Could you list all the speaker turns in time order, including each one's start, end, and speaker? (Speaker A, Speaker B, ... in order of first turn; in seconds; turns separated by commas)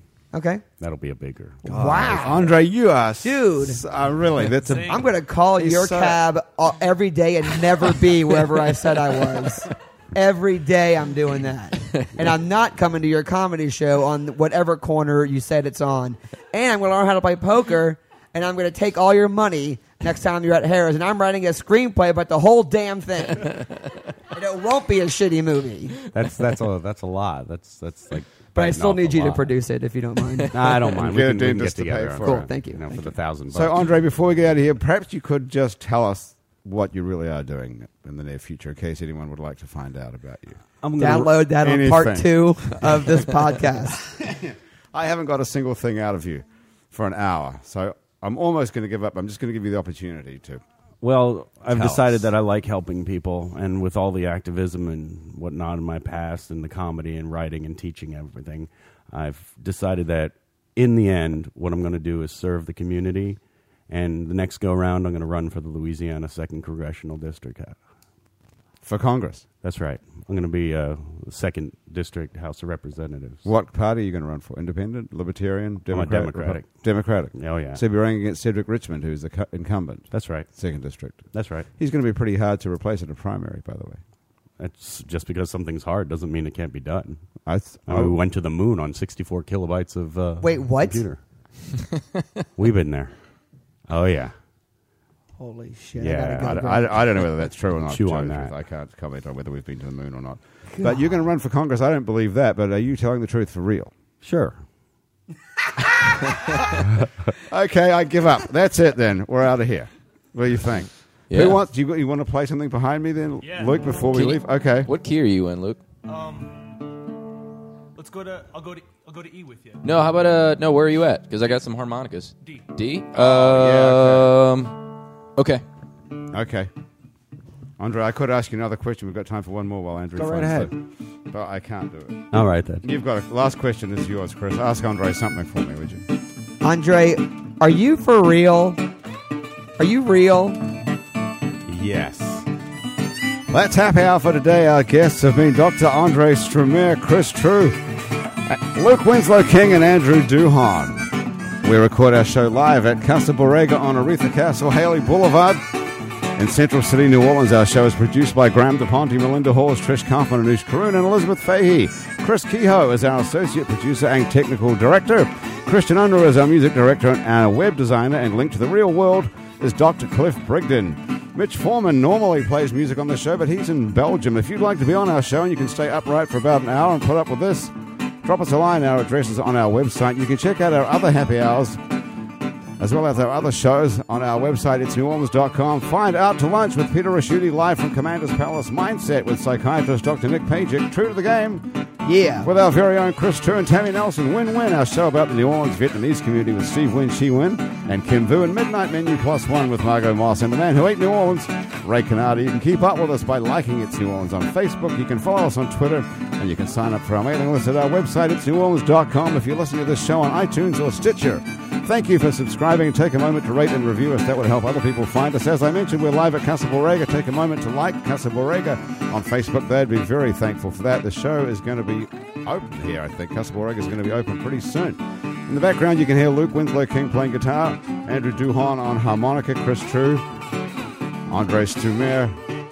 Speaker A: 0.3-0.6, Speaker B: 0.8-2.5, Speaker A: 1.6-2.5, Speaker C: 1.9-6.2, Speaker A: 3.2-3.8, Speaker D: 4.6-5.0, Speaker A: 4.8-23.6, Speaker A: 24.3-26.0, Speaker B: 26.1-29.6, Speaker A: 28.5-30.7, Speaker B: 30.5-33.8, Speaker C: 30.9-32.5, Speaker A: 32.2-33.2, Speaker C: 33.5-40.6, Speaker B: 40.8-41.3, Speaker A: 41.0-44.0, Speaker C: 41.6-43.3, Speaker C: 44.0-50.6, Speaker B: 51.0-67.8, Speaker C: 51.7-52.3, Speaker C: 68.8-69.5, Speaker B: 69.6-73.4, Speaker C: 73.4-84.0, Speaker B: 75.9-76.7, Speaker B: 77.2-77.8, Speaker B: 80.1-80.5, Speaker B: 81.3-81.7, Speaker B: 84.6-87.2, Speaker C: 87.5-88.2, Speaker B: 87.8-91.2, Speaker A: 90.4-91.1, Speaker B: 92.6-93.1, Speaker B: 93.9-94.3, Speaker A: 95.4-97.0, Speaker B: 96.0-96.9, Speaker C: 96.4-103.9, Speaker B: 97.8-98.5, Speaker A: 100.7-101.2, Speaker B: 104.2-104.6, Speaker C: 106.0-106.8, Speaker C: 107.3-114.9, Speaker E: 111.3-111.6, Speaker D: 113.4-113.9, Speaker E: 114.1-115.8, Speaker D: 116.0-116.6, Speaker D: 118.0-119.8, Speaker E: 119.8-124.8, Speaker C: 123.1-124.3, Speaker E: 125.3-125.6, Speaker C: 126.3-126.7, Speaker C: 127.8-130.7, Speaker B: 130.2-130.7, Speaker C: 131.3-136.0, Speaker B: 132.3-132.8, Speaker A: 136.6-138.8, Speaker A: 139.8-140.6, Speaker B: 141.7-142.4, Speaker C: 143.5-147.8, Speaker C: 148.4-151.1, Speaker C: 151.6-181.8, Speaker C: 182.8-191.7, Speaker A: 192.0-192.5, Speaker C: 192.4-230.2, Speaker C: 231.3-232.4